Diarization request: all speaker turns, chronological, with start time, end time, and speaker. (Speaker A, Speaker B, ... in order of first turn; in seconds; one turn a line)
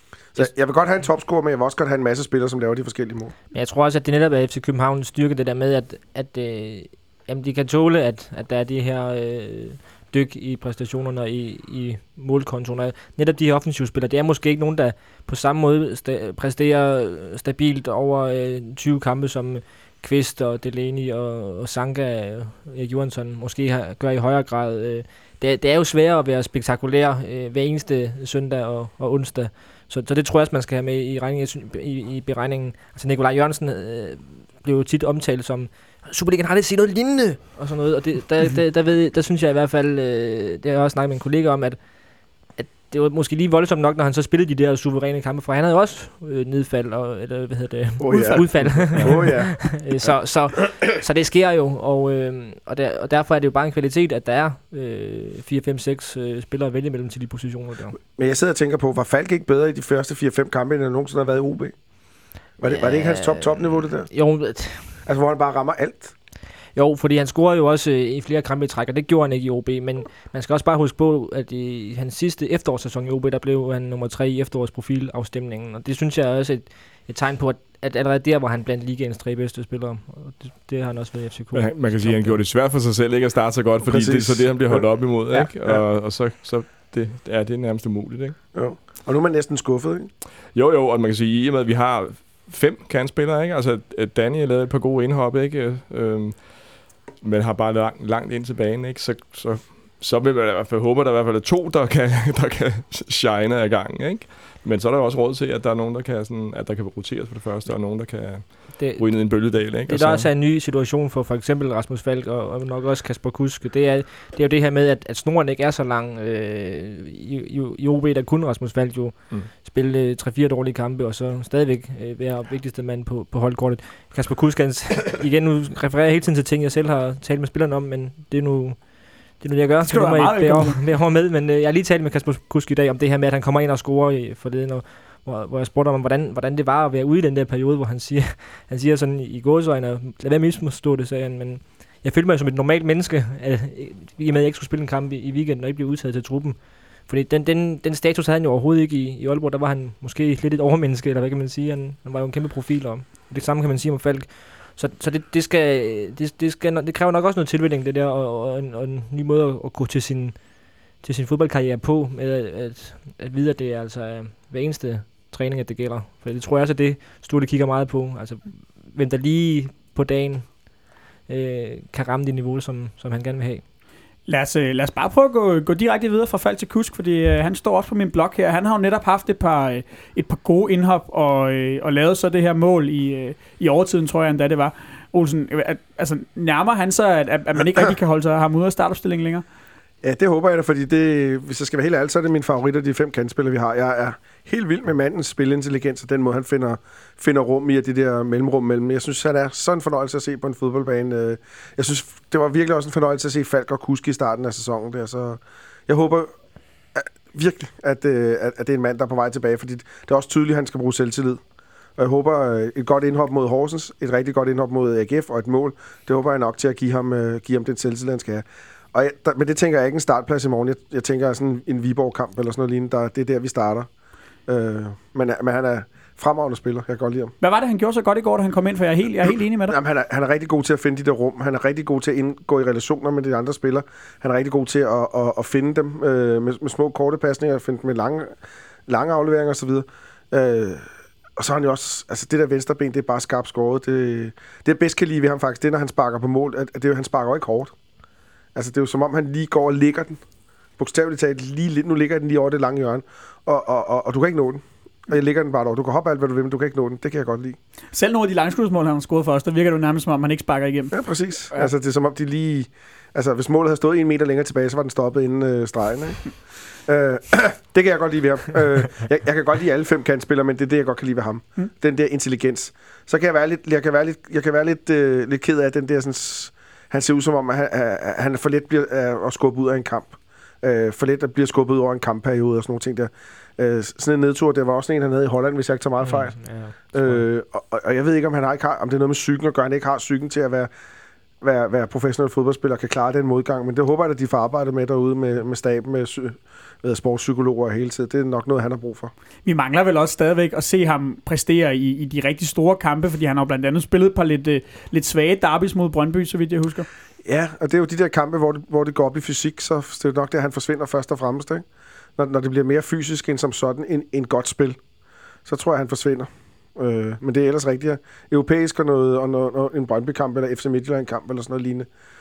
Speaker A: 0.3-3.3
Speaker B: 3.5-41.8
Speaker B: 42.5-58.0
Speaker A: 48.0-49.7
Speaker C: 48.4-49.2
Speaker A: 58.1-61.7
Speaker A: 62.6-64.1
Speaker B: 62.6-65.0
Speaker A: 65.0-66.1
Speaker B: 66.8-82.4
Speaker C: 81.5-88.4
Speaker A: 83.8-85.8
Speaker A: 88.5-90.1
Speaker C: 90.5-110.3
Speaker B: 108.8-173.6
Speaker D: 129.8-130.8
Speaker D: 174.3-189.4
Speaker A: 190.0-206.3
Speaker A: 206.9-211.4
Speaker A: 212.0-223.9
Speaker A: 224.5-227.3
Speaker D: 227.4-229.8
Speaker A: 229.7-238.3
Speaker A: 238.9-240.9
Speaker A: 241.4-247.7
Speaker A: 248.6-250.2
Speaker A: 250.8-257.6
Speaker D: 257.9-261.0
Speaker A: 260.9-290.7
Speaker B: 286.0-287.2
Speaker A: 291.4-299.1
Speaker D: 299.4-306.9
Speaker A: 307.2-311.6
Speaker A: 312.2-314.8
Speaker A: 315.5-321.9